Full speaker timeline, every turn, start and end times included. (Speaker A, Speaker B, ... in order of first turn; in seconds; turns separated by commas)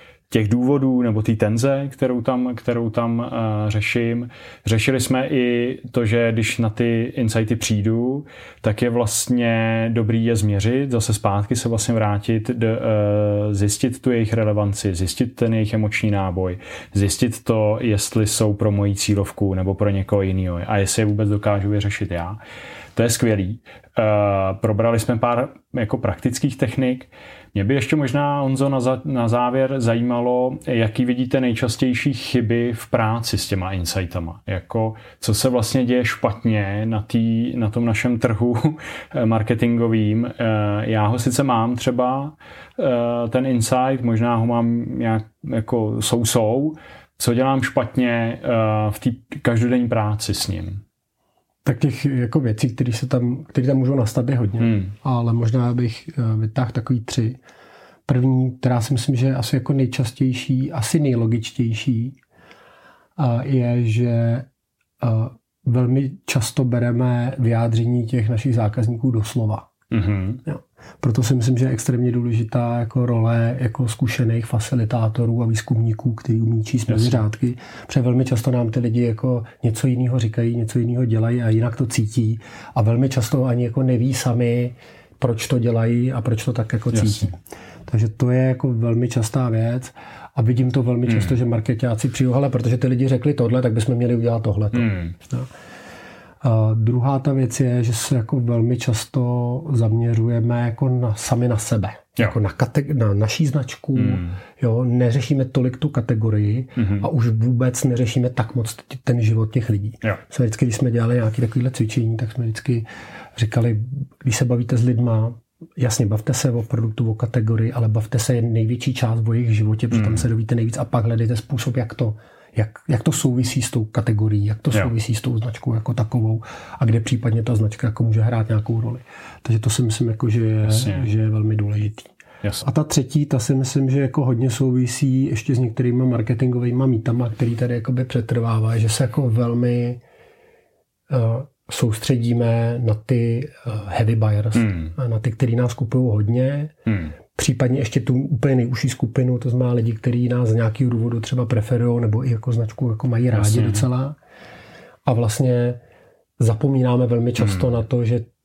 Speaker A: 0.3-22.4, Speaker A: 22.9-50.8, Speaker B: 51.6-57.4, Speaker B: 58.1-62.2, Speaker B: 63.2-64.5, Speaker B: 65.0-69.7, Speaker A: 69.9-70.4, Speaker B: 70.5-95.5, Speaker A: 76.9-77.2, Speaker A: 86.9-87.3, Speaker A: 94.8-95.1, Speaker B: 96.4-132.1, Speaker A: 104.0-104.3, Speaker A: 106.8-107.0, Speaker A: 119.9-120.2, Speaker A: 130.7-131.1, Speaker B: 132.6-140.0, Speaker B: 141.1-146.8, Speaker A: 144.6-144.9, Speaker A: 146.9-147.1, Speaker B: 147.3-154.2, Speaker A: 153.3-153.8, Speaker B: 155.1-155.8, Speaker B: 156.4-158.3